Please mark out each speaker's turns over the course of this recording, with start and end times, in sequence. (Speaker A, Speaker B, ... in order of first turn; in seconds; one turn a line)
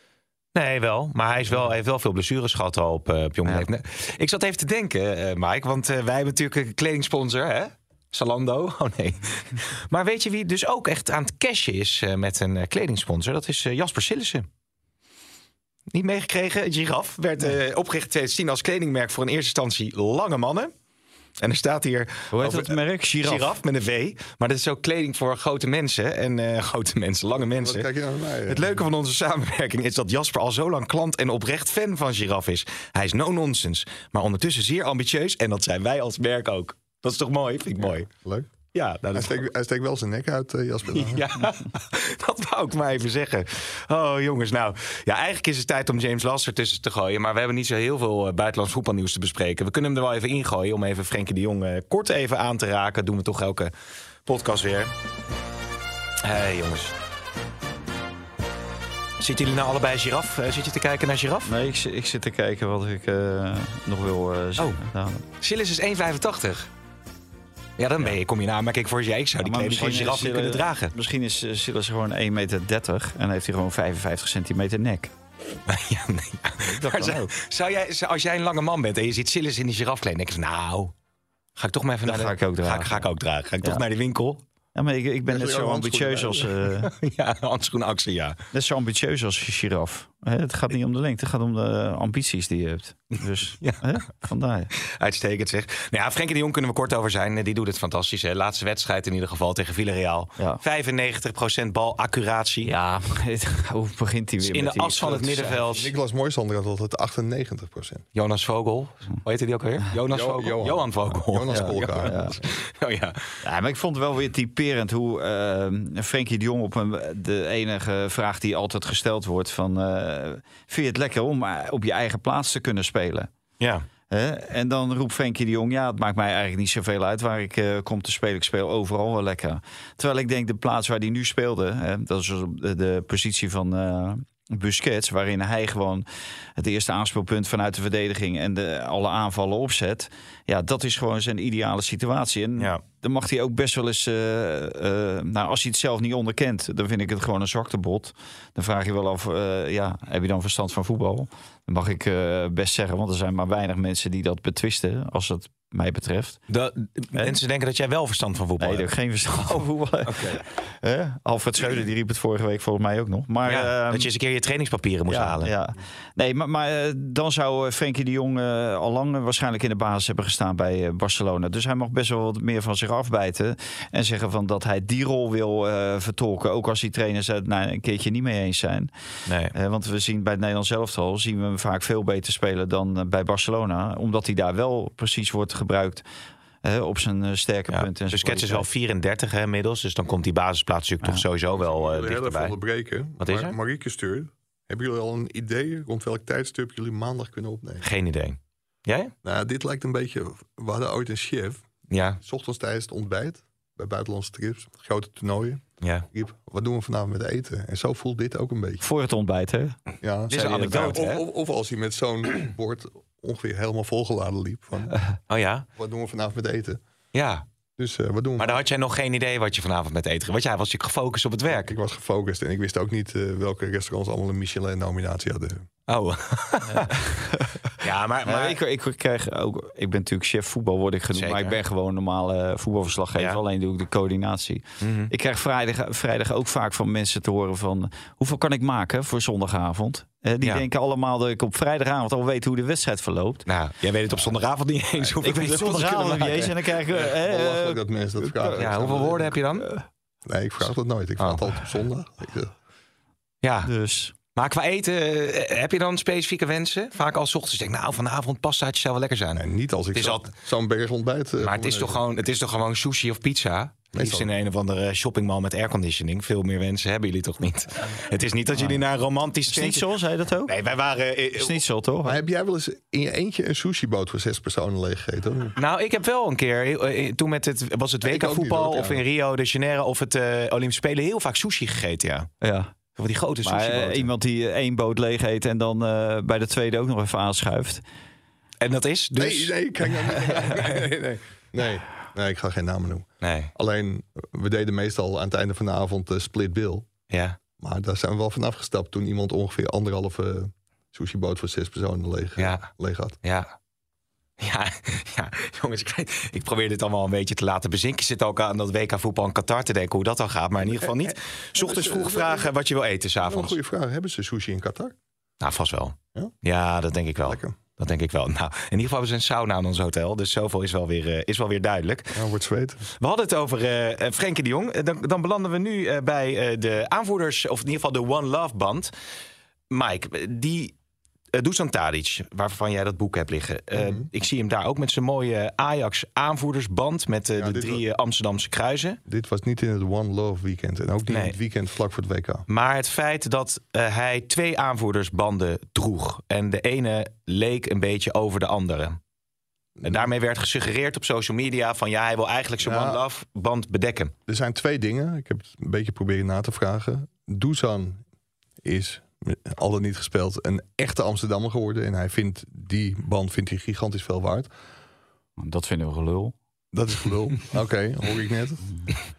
Speaker A: 0.5-14.5
Speaker A: 15.9-20.7
Speaker A: 21.4-27.9
Speaker B: 22.3-23.5
Speaker C: 27.5-28.8
Speaker A: 28.5-38.1
Speaker C: 37.8-38.5
Speaker A: 38.7-39.4
Speaker C: 39.1-41.2
Speaker A: 40.9-53.7
Speaker A: 54.2-54.9
Speaker A: 56.2-56.9
Speaker A: 59.2-61.5
Speaker B: 61.5-65.2
Speaker A: 65.4-66.7
Speaker A: 67.8-70.9
Speaker B: 69.4-75.1
Speaker A: 75.7-80.9
Speaker B: 76.6-77.3
Speaker A: 81.5-84.4
Speaker B: 82.0-83.0
Speaker B: 84.7-86.9
Speaker C: 85.3-86.5
Speaker A: 86.8-88.4
Speaker B: 88.5-94.7
Speaker A: 94.8-102.7
Speaker B: 102.6-105.6
Speaker A: 104.4-105.9
Speaker C: 105.7-108.0
Speaker A: 108.1-113.3
Speaker C: 110.1-112.4
Speaker B: 111.5-112.3
Speaker B: 113.4-123.3
Speaker A: 123.6-123.8
Speaker B: 124.1-136.0
Speaker B: 136.6-156.4
Speaker A: 156.5-159.6
Speaker B: 158.6-164.1
Speaker A: 160.1-160.4
Speaker A: 163.4-165.5
Speaker B: 165.1-178.9
Speaker A: 179.3-179.5
Speaker B: 179.5-186.0
Speaker B: 186.6-188.7
Speaker A: 187.7-192.5
Speaker C: 191.6-197.9
Speaker A: 193.2-193.5
Speaker A: 197.8-199.1
Speaker C: 199.2-201.7
Speaker A: 201.9-202.2
Speaker C: 202.2-208.8
Speaker B: 208.8-211.0
Speaker C: 210.0-214.9
Speaker A: 210.3-211.2
Speaker A: 215.3-215.6
Speaker C: 215.8-216.8
Speaker A: 217.1-217.4
Speaker C: 217.8-218.6
Speaker A: 218.4-221.7
Speaker C: 221.5-225.7
Speaker A: 225.9-227.0
Speaker B: 226.9-227.7
Speaker A: 227.8-228.6
Speaker B: 228.2-243.4
Speaker A: 231.1-231.6
Speaker A: 233.1-233.4
Speaker A: 234.8-235.1
Speaker A: 243.4-246.6
Speaker B: 245.2-249.0
Speaker C: 246.9-249.4
Speaker A: 248.6-249.7
Speaker C: 250.2-252.5
Speaker A: 253.4-253.7
Speaker B: 253.6-254.1
Speaker A: 254.3-260.3
Speaker C: 259.3-262.0
Speaker A: 261.4-269.9
Speaker C: 263.9-264.3
Speaker B: 269.5-270.5
Speaker A: 270.5-271.6
Speaker B: 271.4-272.2
Speaker C: 272.0-275.6
Speaker A: 275.6-282.3
Speaker C: 278.0-279.0
Speaker B: 282.4-282.7
Speaker A: 282.9-284.1
Speaker B: 283.4-287.8
Speaker A: 288.6-290.9
Speaker C: 289.1-296.9
Speaker A: 293.2-293.5
Speaker A: 297.1-297.4
Speaker C: 297.6-303.2
Speaker A: 302.4-302.7
Speaker A: 303.2-303.5
Speaker A: 304.4-313.5
Speaker C: 310.6-312.5
Speaker C: 313.2-314.9
Speaker A: 315.4-322.2
Speaker C: 317.2-317.6
Speaker C: 322.1-322.9
Speaker A: 323.0-328.9
Speaker A: 329.7-330.7
Speaker A: 331.3-339.0
Speaker C: 333.7-334.1
Speaker C: 337.4-337.8
Speaker C: 339.1-342.4
Speaker A: 341.1-341.4
Speaker A: 342.5-349.0
Speaker C: 349.8-350.1
Speaker A: 349.8-354.1
Speaker C: 352.6-353.0
Speaker C: 354.3-358.0
Speaker C: 358.6-364.5
Speaker B: 365.4-366.3
Speaker C: 366.7-368.7